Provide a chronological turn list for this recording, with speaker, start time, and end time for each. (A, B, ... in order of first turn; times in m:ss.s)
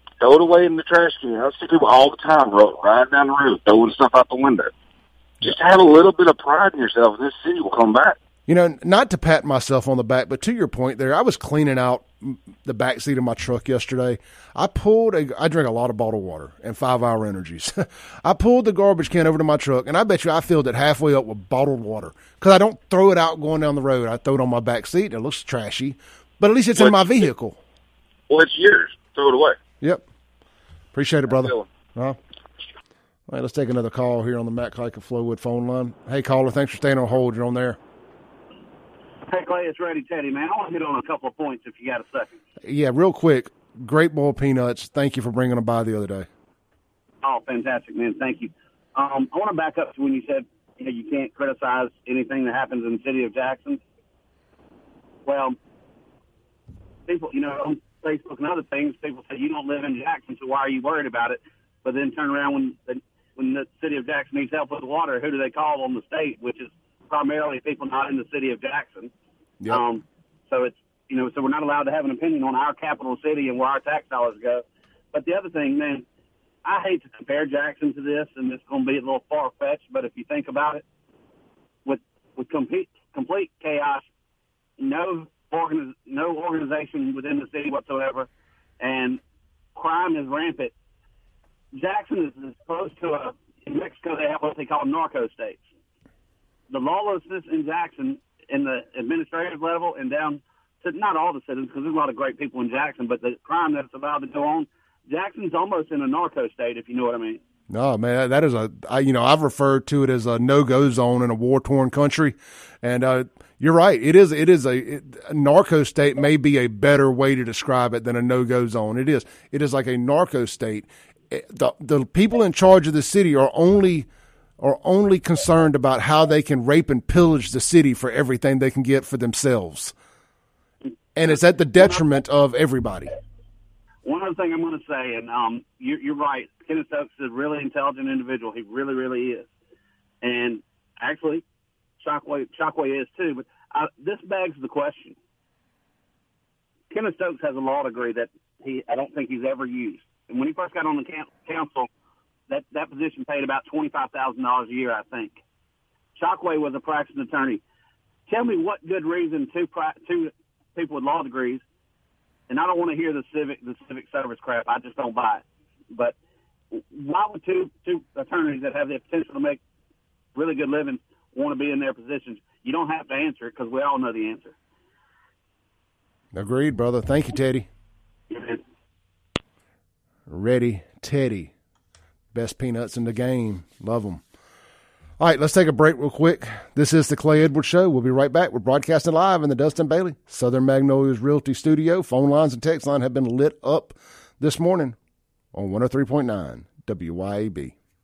0:00.2-0:04.7 A
0:05.4-0:08.2 A
0:08.5-0:27.6 B
0:26.8-0:27.2 A
0:28.3-0:29.6 A
0:30.9-0:32.2 B
0:31.3-0:31.7 A
0:33.3-0:37.8 B
0:39.3-0:42.3 C
0:42.6-0:46.3 B
0:47.2-0:53.8 C
0:55.2-0:55.5 C
0:57.1-1:09.1 C
1:09.7-1:16.0 C
1:16.6-1:20.8 C
1:21.8-1:24.0 C
1:24.8-1:28.3 C
1:28.8-1:29.2 C
1:29.7-1:30.7 C
1:31.7-1:35.6 C
1:36.7-1:47.4 C
1:47.7-2:04.1 B
2:04.6-2:09.9 B
2:11.2-2:13.1 B
2:11.8-2:12.0 C
2:14.0-2:19.4 C
2:20.2-2:21.4 C
2:22.0-2:25.2 C
2:26.9-2:31.9 C
2:32.5-2:35.4 C
2:36.2-2:37.6 C
2:38.3-2:41.6 C
2:42.5-2:46.1 C
2:46.7-2:49.6 C
2:50.3-2:54.5 C
2:56.3-2:57.7 B
2:58.3-2:58.6 C
3:00.3-3:01.5 B
3:02.3-3:04.2 B
3:05.2-3:14.9 B
3:15.5-3:17.7 B